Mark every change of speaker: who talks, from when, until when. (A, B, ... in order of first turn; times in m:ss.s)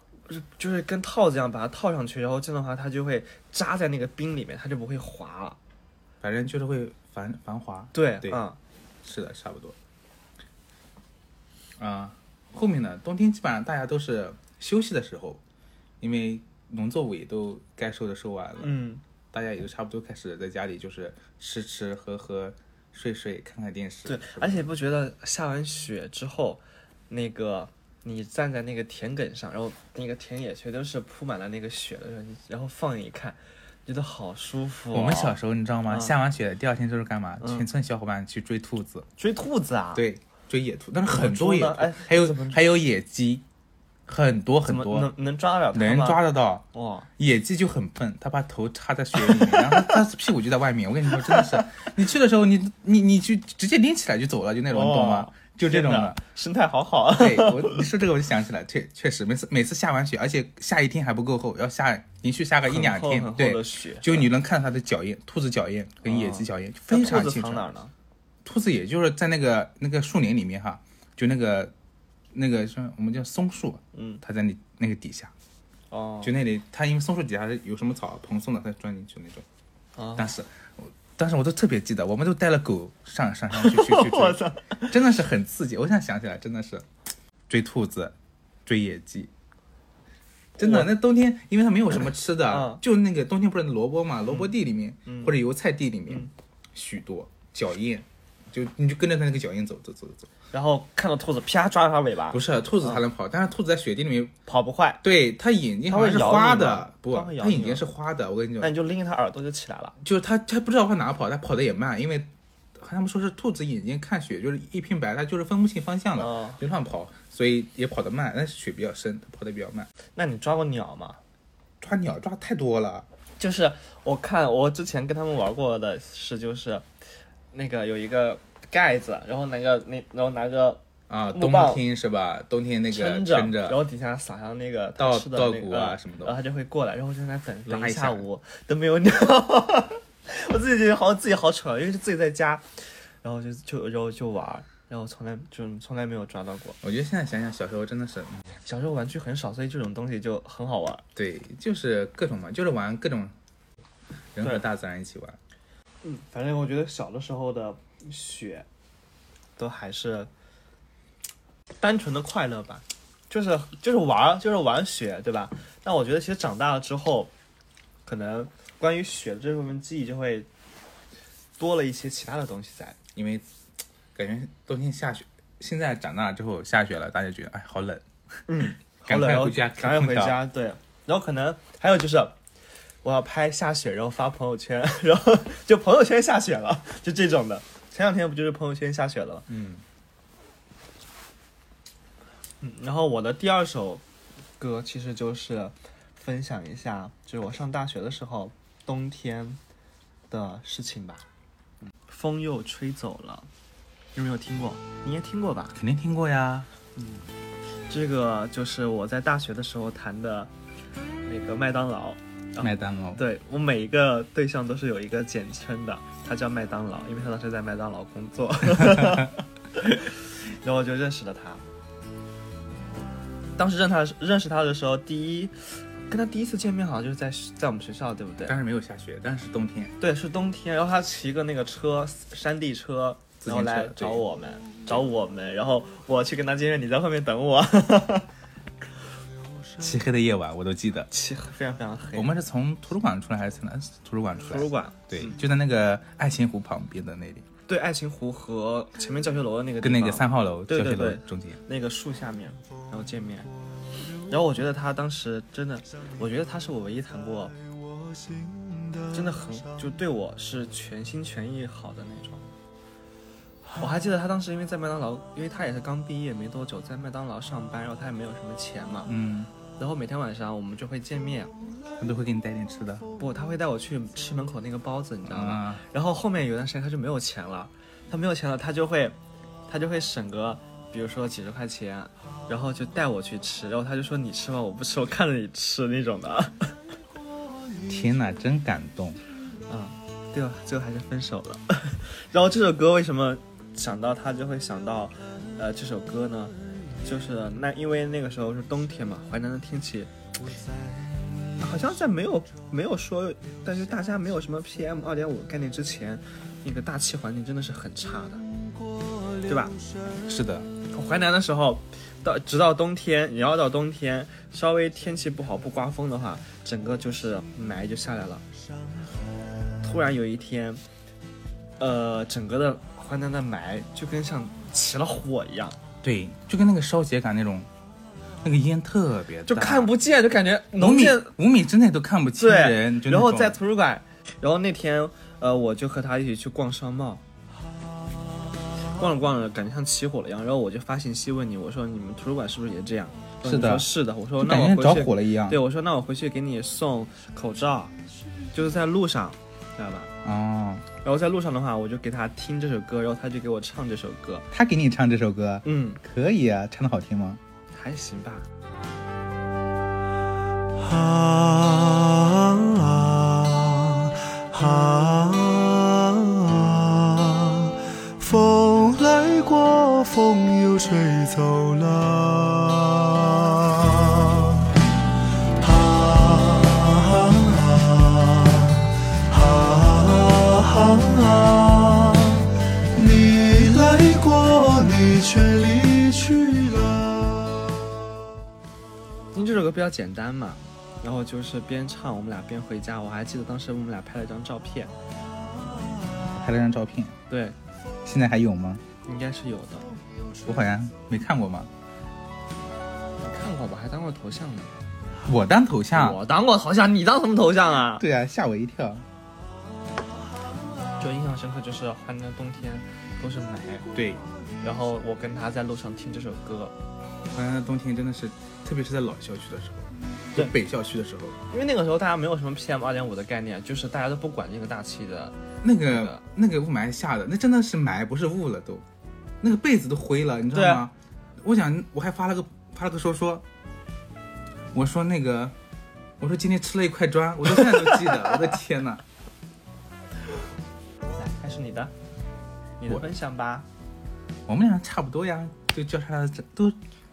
0:00.3-0:05.6 A
0:06.2-0:08.4 B
0:07.9-0:08.6 A
0:09.0-0:09.8 B
0:11.8-0:15.4 B
0:16.0-0:18.8 B
0:18.6-0:19.0 A
0:19.3-0:24.7 B
0:24.0-0:35.4 A
0:34.9-0:39.1 B
0:35.9-0:36.1 A
0:37.4-0:37.7 A
0:39.2-0:40.0 A
0:39.9-0:43.4 B
0:41.1-0:42.6 A
0:44.1-0:45.1 B
0:44.6-0:47.1 A
0:45.7-0:46.6 B
0:47.2-0:56.2 B
0:49.2-0:50.0 A
0:51.1-0:51.8 A
0:54.7-0:57.8 A
0:57.2-1:07.7 B
1:02.6-1:04.3 A
1:06.0-1:07.9 A
1:08.4-1:11.7 B
1:12.3-1:15.3 B
1:13.9-1:14.2 A
1:15.9-1:16.3 A
1:16.2-1:19.4 B
1:20.0-1:20.3 A
1:20.1-1:26.9 B
1:23.5-1:25.0 A
1:27.5-1:28.1 B
1:28.6-1:29.3 B
1:30.6-1:40.3 B
1:30.6-1:30.9 A
1:32.5-1:32.8 A
1:35.0-1:35.4 A
1:40.5-1:43.0 A
1:42.3-1:44.3 B
1:44.5-1:45.0 A
1:45.0-1:48.7 B
1:45.9-1:47.8 A
1:48.6-1:50.0 A
1:50.0-1:59.9 B
1:56.2-1:56.6 A
2:00.2-2:01.2 A
2:01.8-2:03.1 B
2:03.4-2:06.8 A
2:07.5-2:11.8 A
2:11.1-2:13.8 B
2:12.9-2:22.6 A
2:15.0-2:16.4 B
2:17.6-2:18.2 B
2:23.2-2:26.8 A
2:26.8-2:28.4 B
2:28.6-2:31.0 A
2:31.2-2:33.3 B
2:34.3-2:35.4 B
2:36.0-2:38.6 A
2:39.6-2:40.3 A
2:41.8-2:47.3 A
2:48.0-2:50.5 A
2:51.6-2:53.0 A
2:53.1-2:53.4 B
2:54.1-2:58.0 B
2:58.5-3:02.4 A
2:59.0-3:00.4 B
3:03.0-3:09.5 A
3:09.5-3:09.8 B
3:12.6-3:14.0 A
3:14.6-3:19.6 A
3:20.3-3:21.2 A
3:22.0-3:23.5 A
3:24.1-3:25.8 A
3:25.7-3:26.7 B
3:27.0-3:27.2 A
3:27.9-3:30.5 A
3:31.2-3:41.6 A
3:32.6-3:33.2 B
3:38.8-3:39.3 B
3:43.6-3:48.6 A
3:48.4-3:49.9 B
3:50.0-3:58.3 A
3:53.4-3:54.2 B
3:59.8-4:01.1 B
4:01.1-4:02.4 A
4:02.1-4:07.4 B
4:04.4-4:05.4 A
4:07.7-4:13.5 A
4:09.8-4:11.6 B
4:14.3-4:17.5 A
4:19.1-4:22.4 A
4:23.8-4:29.1 A
4:29.0-4:29.5 B
4:29.8-4:31.5 A
4:32.0-4:33.1 B
4:33.2-4:39.2 A
4:35.2-4:35.8 B
4:39.7-4:46.8 A
4:47.9-4:49.2 B
4:49.7-5:00.1 A
5:01.6-5:08.4 A
5:09.4-5:09.8 A
5:10.2-5:10.7 B
5:10.9-5:18.4 A
5:19.8-5:20.8 A
5:21.8-5:25.8 A
5:26.0-5:27.7 B
5:28.4-5:29.9 B
5:29.5-5:31.3 A
5:30.8-5:33.6 B
5:32.4-5:37.2 A
5:39.0-5:47.9 A
5:43.4-5:45.6 B
5:48.5-5:50.1 A
5:50.2-5:50.8 B
5:51.0-5:54.5 A
5:54.5-5:57.4 B
5:55.6-5:56.0 A
5:57.7-5:58.5 A
6:00.8-6:14.7 C
6:15.6-6:27.6 C
6:29.3-6:34.9 A
6:36.3-6:37.2 B
6:37.3-6:37.6 A
6:38.0-6:38.8 B
6:39.0-6:39.9 A
6:40.4-6:41.7 B
6:43.2-6:44.7 A
6:45.2-6:46.2 B
6:45.9-6:48.0 A
6:47.9-6:49.0 B
6:51.0-6:53.9 A
6:53.9-6:54.2 B
6:54.6-6:56.7 A
6:57.3-7:01.4 B
7:01.5-7:06.2 A
7:05.6-7:08.8 B
7:09.4-7:13.4 B
7:10.5-7:10.8 A
7:14.7-7:15.5 B
7:16.2-7:19.0 B
7:21.2-7:21.9 A
7:22.8-7:23.6 A
7:24.5-7:26.8 B